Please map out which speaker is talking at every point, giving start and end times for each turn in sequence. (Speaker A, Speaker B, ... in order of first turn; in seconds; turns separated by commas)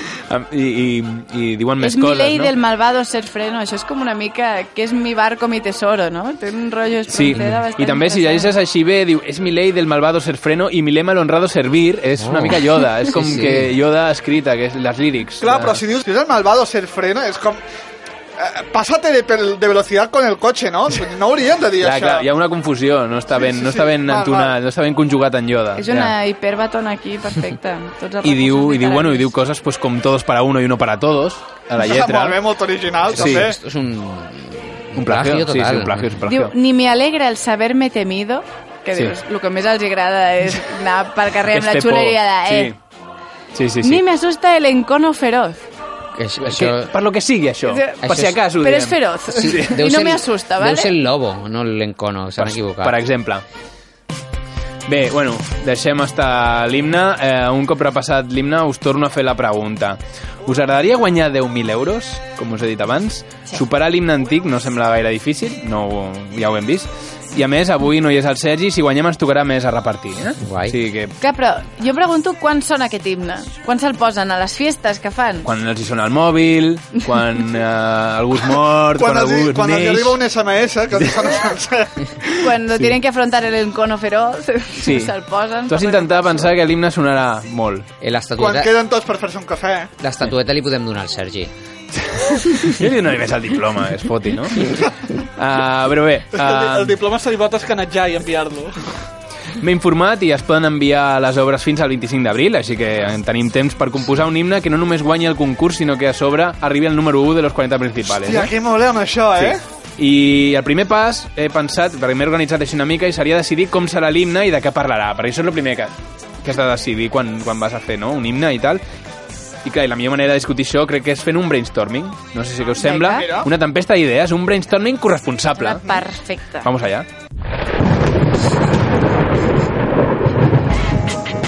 Speaker A: 0.3-2.5, Speaker B: 1.8-8.5, Speaker A: 7.1-15.8, Speaker C: 12.2-13.8, Speaker D: 15.4-17.6, Speaker D: 18.4-22.3, Speaker A: 21.8-26.1, Speaker D: 23.3-24.6, Speaker B: 25.8-29.3, Speaker A: 28.2-32.4, Speaker D: 31.8-33.6, Speaker C: 33.1-36.2, Speaker A: 33.1-33.5, Speaker A: 35.0-36.5, Speaker B: 36.2-42.7, Speaker A: 41.5-42.8, Speaker A: 43.5-44.0, Speaker B: 43.8-45.6, Speaker C: 46.2-46.9, Speaker A: 46.4-49.9, Speaker B: 47.6-51.0, Speaker C: 48.0-48.4, Speaker C: 49.3-53.0, Speaker A: 52.4-53.4, Speaker A: 54.9-71.1, Speaker C: 70.4-70.8, Speaker B: 71.2-75.5, Speaker A: 75.5-80.2, Speaker D: 79.0-81.9, Speaker A: 82.3-83.0, Speaker B: 82.4-86.6, Speaker A: 84.8-87.9, Speaker C: 88.0-88.7, Speaker D: 88.4-89.9, Speaker C: 90.0-91.5, Speaker A: 92.0-94.7, Speaker A: 95.4-96.9, Speaker D: 96.3-98.9, Speaker A: 99.6-108.5, Speaker D: 108.1-109.6, Speaker A: 109.4-115.9, Speaker A: 116.4-118.8, Speaker A: 119.7-125.9, Speaker B: 122.8-123.4, Speaker D: 123.0-123.5, Speaker B: 125.5-126.7, Speaker A: 126.6-127.1